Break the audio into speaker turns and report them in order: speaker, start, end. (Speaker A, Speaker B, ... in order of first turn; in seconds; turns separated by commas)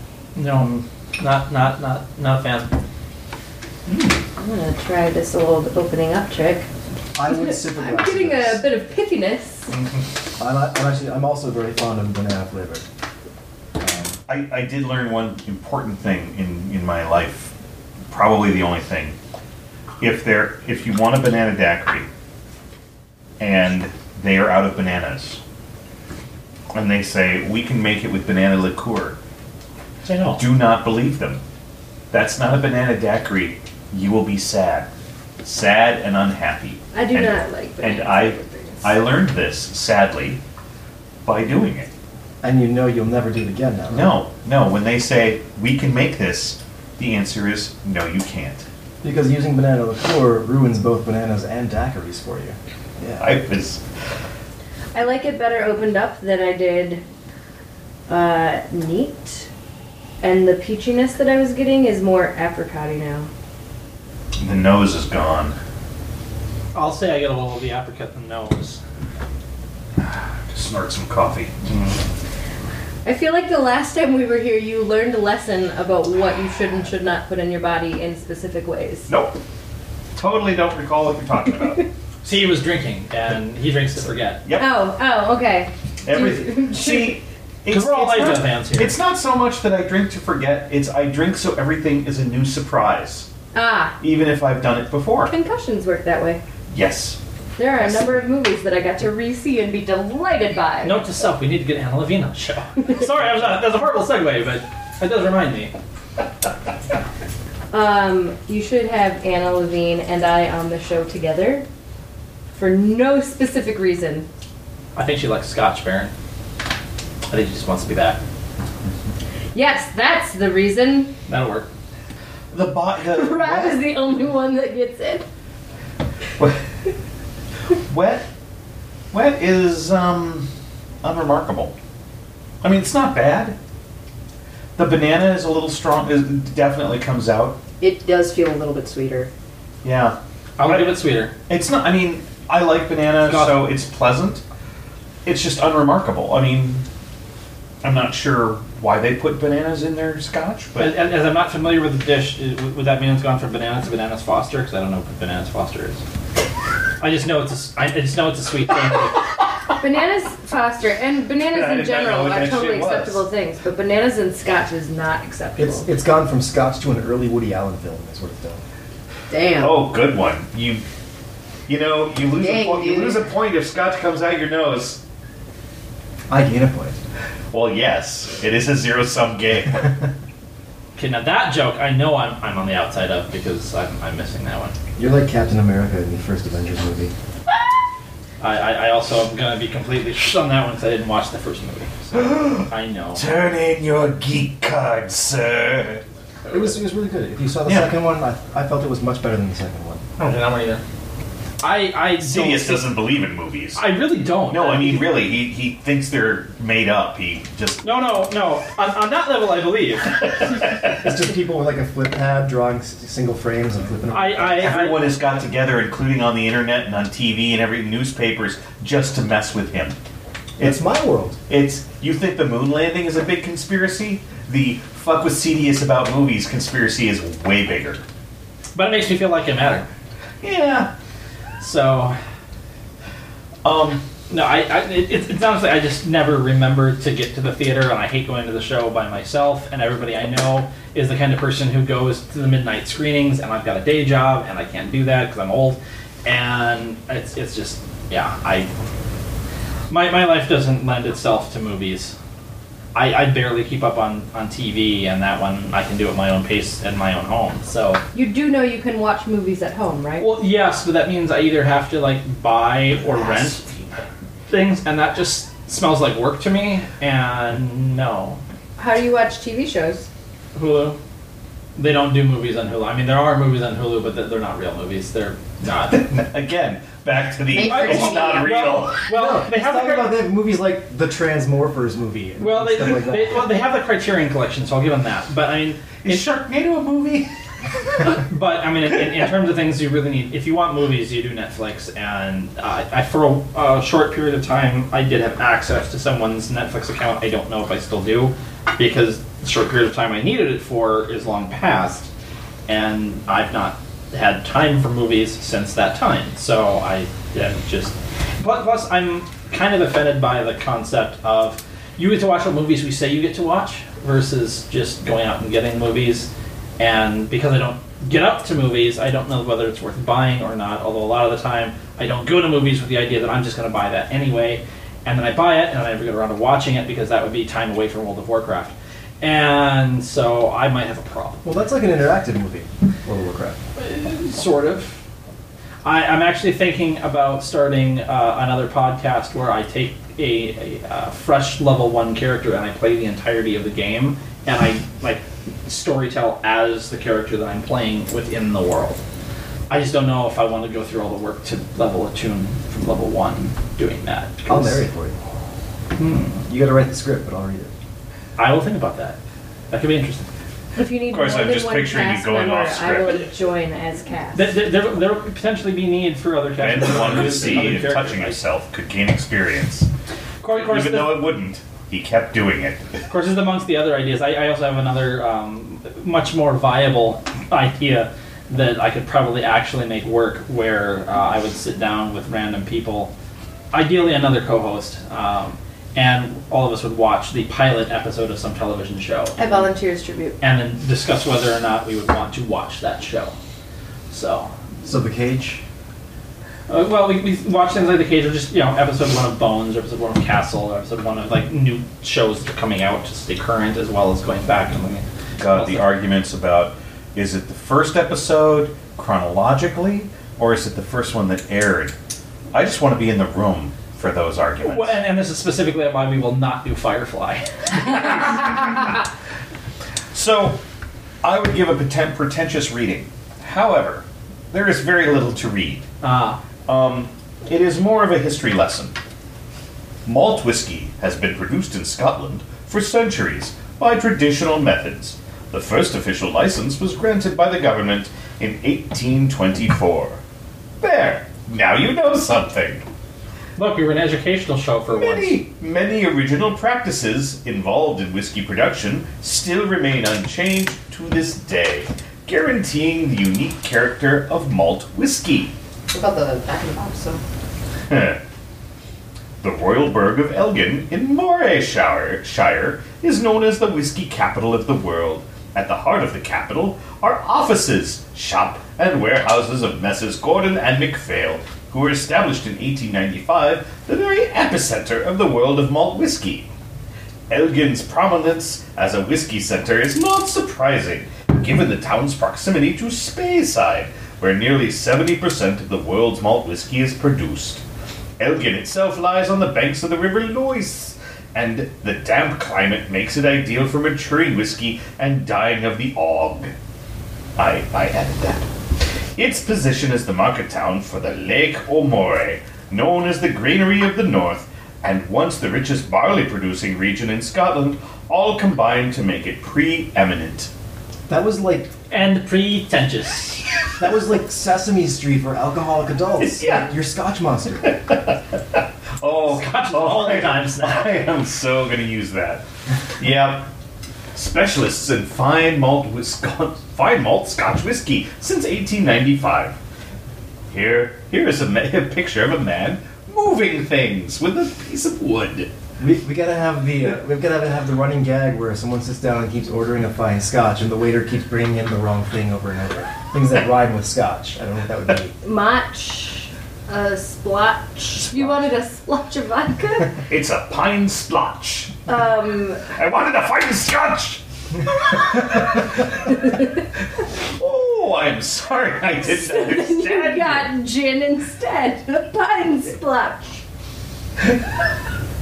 Speaker A: 0.4-2.8, Speaker B: 4.4-6.7, Speaker C: 7.2-8.6, Speaker B: 7.3-9.7, Speaker C: 10.4-12.8, Speaker D: 14.3-17.5, Speaker D: 18.1-19.2, Speaker D: 20.0-22.1, Speaker D: 23.4-25.4, Speaker D: 26.7-29.2, Speaker A: 30.1-30.4, Speaker D: 30.3-31.4, Speaker D: 32.1-34.9, Speaker D: 35.4-40.4, Speaker B: 36.9-39.0, Speaker D: 41.2-41.9, Speaker C: 42.4-44.1, Speaker D: 43.9-48.7, Speaker C: 49.0-53.3, Speaker D: 53.2-53.8, Speaker B: 54.9-57.0, Speaker B: 58.1-59.5, Speaker B: 60.2-63.3, Speaker D: 64.4-65.6, Speaker A: 66.7-68.8, Speaker D: 70.0-71.6, Speaker B: 73.0-79.1, Speaker D: 79.1-79.4, Speaker D: 80.2-81.9, Speaker A: 82.2-84.4, Speaker D: 84.5-84.7, Speaker B: 84.6-87.2, Speaker D: 86.0-93.3, Speaker A: 87.7-89.0, Speaker B: 93.5-94.0, Speaker D: 94.0-95.3, Speaker B: 95.3-96.4, Speaker D: 96.7-97.2, Speaker B: 97.6-101.0, Speaker A: 100.8-105.7, Speaker B: 107.7-111.7, Speaker B: 112.5-114.3, Speaker A: 115.0-116.1, Speaker A: 117.3-118.2, Speaker B: 119.5-121.1, Speaker A: 121.3-121.7, Speaker D: 122.5-123.9, Speaker B: 123.1-125.3, Speaker D: 127.9-128.3, Speaker D: 129.1-130.5, Speaker D: 131.0-131.7, Speaker D: 132.6-133.6, Speaker D: 134.8-137.6, Speaker E: 137.8-139.3, Speaker D: 139.8-140.9, Speaker A: 140.6-141.3, Speaker D: 141.5-144.4, Speaker A: 143.2-143.6, Speaker D: 145.2-146.8, Speaker D: 147.8-150.9, Speaker A: 150.8-156.0, Speaker A: 157.0-159.3, Speaker B: 159.8-165.9, Speaker D: 161.5-163.2, Speaker C: 165.6-168.6, Speaker E: 169.3-169.8, Speaker D: 169.6-170.8, Speaker D: 171.7-175.0, Speaker E: 172.3-173.3, Speaker C: 176.3-177.0, Speaker D: 177.5-180.0, Speaker A: 181.0-184.8, Speaker C: 185.0-187.1, Speaker A: 188.4-193.2, Speaker D: 192.1-196.0, Speaker C: 196.5-200.0, Speaker D: 197.7-198.0, Speaker A: 200.2-200.8, Speaker A: 201.6-202.9, Speaker D: 202.2-203.8, Speaker A: 203.8-205.1, Speaker D: 204.5-207.8, Speaker A: 207.8-210.5, Speaker C: 211.0-214.7, Speaker A: 214.1-215.0, Speaker D: 214.6-220.0, Speaker D: 220.6-220.8, Speaker C: 220.6-221.4, Speaker D: 221.5-228.1, Speaker A: 228.8-229.9, Speaker D: 230.4-230.9, Speaker A: 231.6-232.2, Speaker D: 233.7-234.0, Speaker A: 234.3-248.7, Speaker A: 249.9-252.2, Speaker A: 252.9-258.0, Speaker B: 258.1-260.3, Speaker A: 260.2-263.6, Speaker D: 263.1-264.0, Speaker A: 264.5-268.4, Speaker B: 268.8-270.1, Speaker A: 270.6-271.0, Speaker A: 271.8-276.1, Speaker D: 276.0-279.0, Speaker E: 277.5-278.5, Speaker A: 277.6-280.2, Speaker C: 279.1-283.5, Speaker A: 282.4-286.3, Speaker D: 286.0-287.3, Speaker A: 288.0-302.1, Speaker A: 302.7-331.4, Speaker C: 331.4-333.6, Speaker A: 333.8-335.0, Speaker A: 335.8-349.0, Speaker A: 349.7-354.8, Speaker C: 354.5-355.2, Speaker A: 356.0-356.4, Speaker C: 356.5-357.7, Speaker A: 358.4-359.2, Speaker A: 359.7-360.3, Speaker B: 360.8-364.5, Speaker D: 361.1-363.2, Speaker A: 364.3-368.4, Speaker D: 366.6-369.9, Speaker A: 370.4-371.3, Speaker D: 370.5-373.0, Speaker A: 373.1-383.1, Speaker A: 383.7-389.5, Speaker B: 389.4-390.4, Speaker A: 390.4-393.3, Speaker A: 394.1-394.5, Speaker C: 394.8-395.6, Speaker A: 396.7-405.9, Speaker D: 405.4-412.0, Speaker D: 412.5-415.0, Speaker A: 414.6-418.9, Speaker D: 420.1-420.6, Speaker D: 421.2-425.9, Speaker A: 426.0-426.4, Speaker D: 426.7-428.9, Speaker D: 430.1-440.2, Speaker D: 440.8-442.8, Speaker A: 443.6-445.4, Speaker D: 444.9-455.5, Speaker E: 455.9-457.2, Speaker D: 457.9-458.2, Speaker D: 459.4-476.5, Speaker D: 477.3-487.6, Speaker D: 488.2-496.5, Speaker D: 497.4-498.5, Speaker D: 499.2-510.5, Speaker C: 511.1-511.7, Speaker A: 511.9-513.5, Speaker C: 513.8-517.8, Speaker D: 516.2-516.7, Speaker D: 519.0-522.4, Speaker A: 519.3-521.0, Speaker D: 523.0-523.5, Speaker D: 524.1-529.6, Speaker D: 530.5-535.5, Speaker C: 535.8-545.1, Speaker B: 545.2-550.0, Speaker D: 550.1-551.8, Speaker B: 551.9-552.7, Speaker D: 552.7-554.2, Speaker D: 555.0-555.4, Speaker D: 557.2-560.5, Speaker B: 559.0-563.4